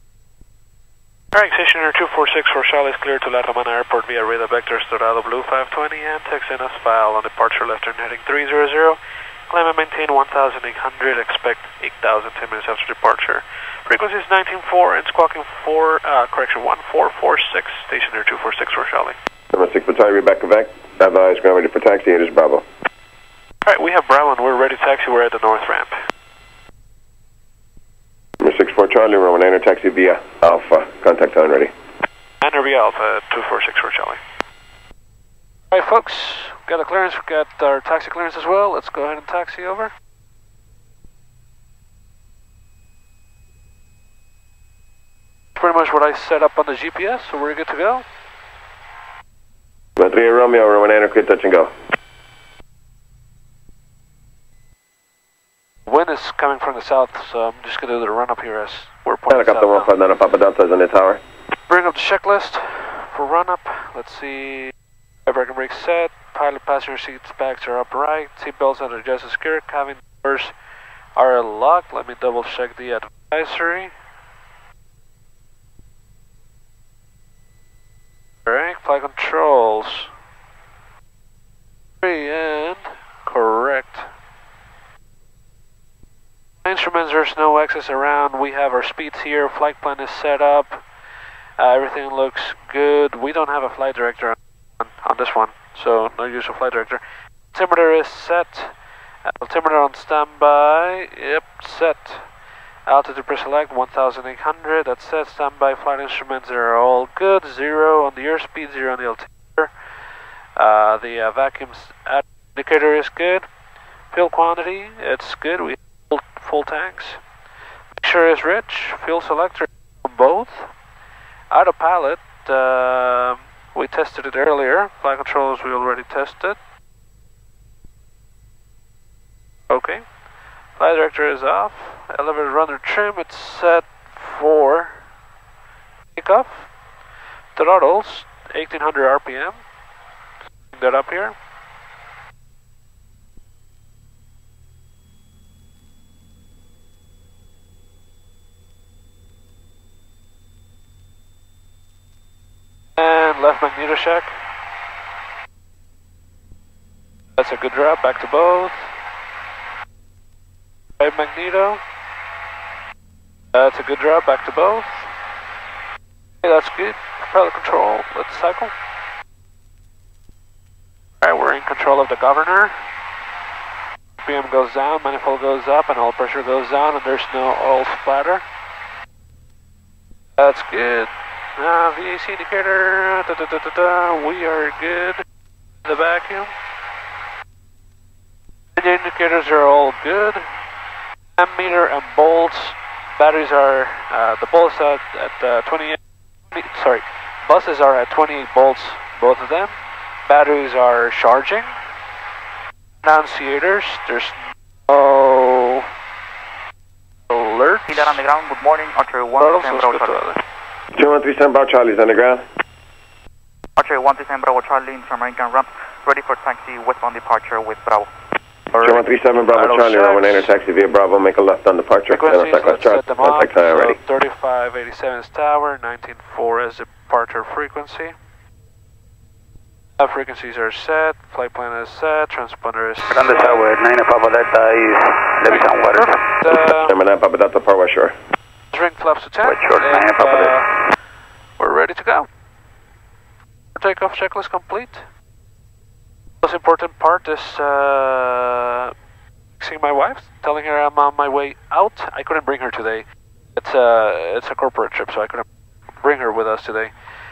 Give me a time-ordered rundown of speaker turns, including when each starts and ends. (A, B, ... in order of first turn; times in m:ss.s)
0:01.3-0:09.0 A
0:09.5-0:19.2 A
0:19.5-0:22.6 B
0:23.6-0:26.0 A
0:28.4-0:31.7 B
0:32.4-0:34.2 A
0:35.7-0:39.9 A
0:45.6-0:48.0 A
0:50.0-0:51.7 B
0:55.9-0:59.9 A
0:59.3-1:01.2 B
1:01.7-1:04.7 A
1:05.3-1:10.5 A
1:11.2-1:13.9 A
1:18.4-1:20.1 A
1:22.0-1:24.1 A
1:26.6-1:30.8 A
1:31.6-1:37.0 A
1:37.5-1:38.7 A
1:39.3-1:42.3 A
1:42.9-1:49.7 A
1:50.6-1:53.5 A
1:54.1-1:57.2 A
1:58.0-2:00.7 A
2:01.5-2:06.6 A
2:09.7-2:10.0 A
2:10.8-2:15.0 A
2:16.1-2:16.7 A
2:17.6-2:19.6 A
2:20.7-2:21.4 A
2:33.0-2:34.3 A
2:37.4-2:38.9 A
2:41.0-2:41.8 A
2:43.5-2:45.1 A
2:46.4-2:48.7 A
2:51.2-2:52.8 A
2:54.2-2:58.4 A
3:00.4-3:05.2 A
3:05.8-3:06.5 A
3:08.8-3:10.5 A
3:11.4-3:16.0 A
3:16.5-3:19.7 A
3:20.3-3:21.7 A
3:23.0-3:24.4 A
3:24.9-3:25.9 A
3:27.3-3:28.2 A
3:27.9-3:30.3 C
3:29.4-3:30.4 A
3:31.0-3:32.4 B
3:33.8-3:38.1 C
3:38.7-3:39.0 A
3:38.8-3:44.0 B
3:39.5-3:40.5 A
3:42.1-3:48.1 A
3:50.0-3:53.7 A
3:53.1-3:56.3 D
3:55.5-3:57.0 A
3:56.8-3:58.2 B
3:58.7-4:00.7 A
3:59.4-4:00.7 D
4:01.6-4:02.3 A
4:03.8-4:05.0 A
4:06.4-4:08.9 A
4:09.6-4:15.5 A
4:16.0-4:16.9 A